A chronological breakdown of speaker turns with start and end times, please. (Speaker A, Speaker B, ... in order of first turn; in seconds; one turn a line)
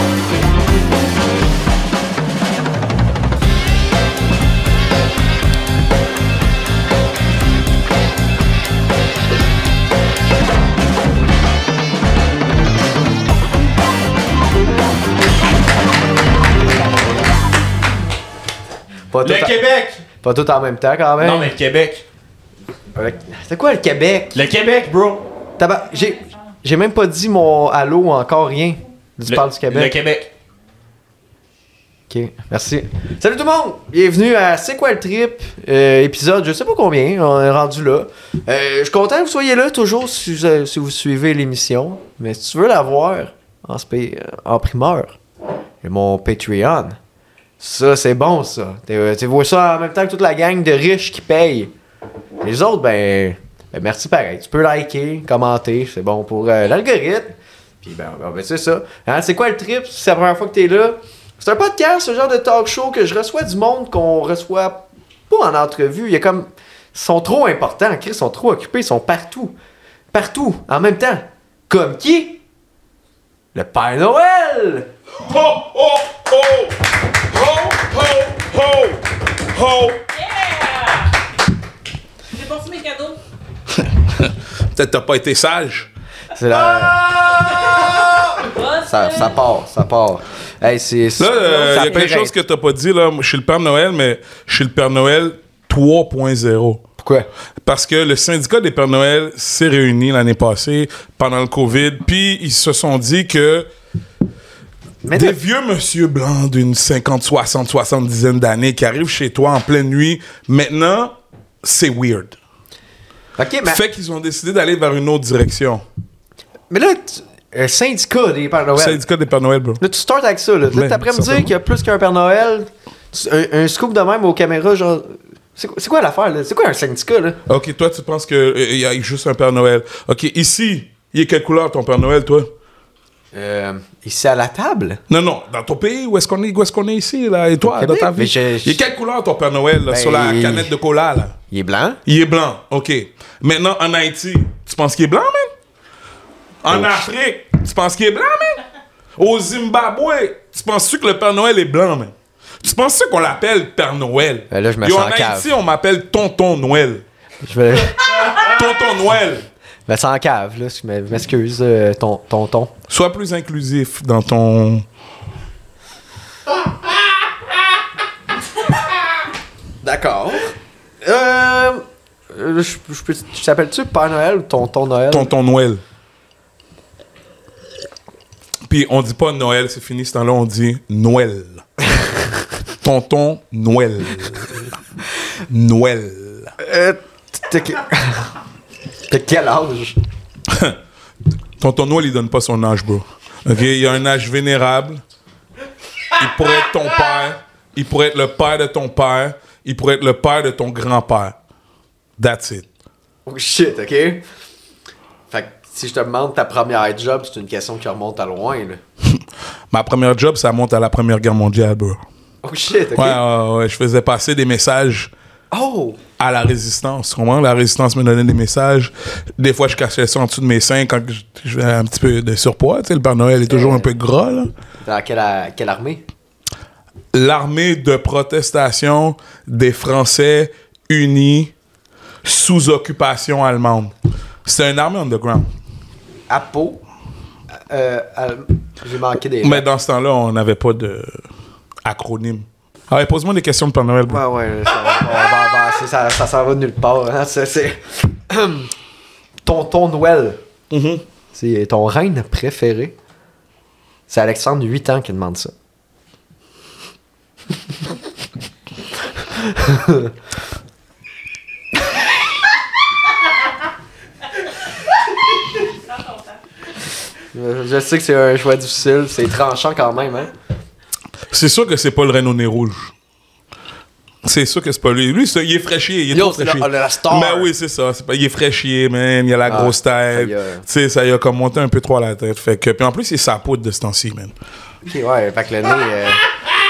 Speaker A: 19.1-19.6
Speaker B: 19.2-20.0
Speaker A: 20.2-21.6
Speaker B: 21.2-22.0
Speaker A: 22.9-24.4
Speaker B: 24.3-25.2
Speaker A: 25.6-29.9
Speaker B: 29.3-30.3
Speaker A: 32.1-45.2
Speaker A: 45.8-47.0
Speaker A: 47.6-51.7
Speaker A: 52.4-69.5
Speaker A: 70.1-72.4
Speaker A: 73.5-74.9
Speaker C: 75.2-80.0
Speaker D: 80.2-81.1
Speaker D: 82.3-83.2
Speaker C: 84.0-85.9
Speaker A: 86.3-87.1
Speaker D: 87.3-89.4
Speaker A: 88.8-92.3
Speaker C: 91.2-96.8
Speaker A: 97.0-97.3
Speaker C: 97.6-103.7
Speaker A: 105.0-105.4
Speaker C: 105.1-112.4
Speaker A: 113.4-113.8
Speaker C: 113.6-115.8
Speaker A: 116.7-119.0
Speaker C: 118.7-119.8
Speaker A: 119.8-127.4
Speaker C: 120.7-121.5
Speaker C: 127.5-132.5
Speaker A: 133.3-135.0
Speaker C: 135.1-141.3
Speaker A: 137.7-138.8
Speaker A: 139.9-140.7
Speaker A: 141.5-142.0
Speaker C: 142.1-145.5
Speaker C: 146.6-148.6
Speaker A: 146.7-147.0
Speaker C: 149.2-157.0
Speaker A: 154.5-155.5
Speaker A: 157.4-158.4
Speaker C: 158.3-159.5
Speaker A: 159.9-162.7
Speaker C: 162.9-164.9
Speaker A: 169.8-175.3
Speaker C: 175.1-175.8
Speaker C: 178.7-181.6
Speaker C: 182.8-184.6
Speaker C: 185.4-186.6
Speaker A: 186.6-188.3
Speaker A: 189.1-190.0
Speaker C: 190.5-190.8
Speaker C: 191.6-195.0
Speaker C: 196.1-201.4
Speaker C: 202.2-202.7
Speaker A: 203.2-204.2
Speaker A: 205.3-208.8
Speaker C: 209.7-212.0
Speaker A: 212.4-213.2
Speaker C: 212.9-215.1
Speaker A: 215.5-216.0
Speaker C: 216.2-224.5
Speaker A: 223.5-223.9
Speaker A: 224.8-226.0
Speaker C: 227.1-231.5
Speaker C: 232.2-233.9
Speaker C: 234.4-235.5
Speaker A: 236.3-236.8
Speaker A: 237.5-239.6
Speaker C: 239.4-241.2
Speaker C: 241.8-244.2
Speaker A: 244.1-248.7
Speaker A: 249.4-250.4
Speaker C: 250.7-251.1
Speaker A: 251.3-252.9
Speaker A: 254.1-255.5
Speaker A: 259.3-260.1
Speaker D: 265.8-266.4
Speaker A: 267.3-270.3
Speaker C: 271.3-272.9
Speaker C: 274.2-284.3
Speaker A: 276.1-277.5
Speaker A: 279.5-280.6
Speaker A: 284.9-286.2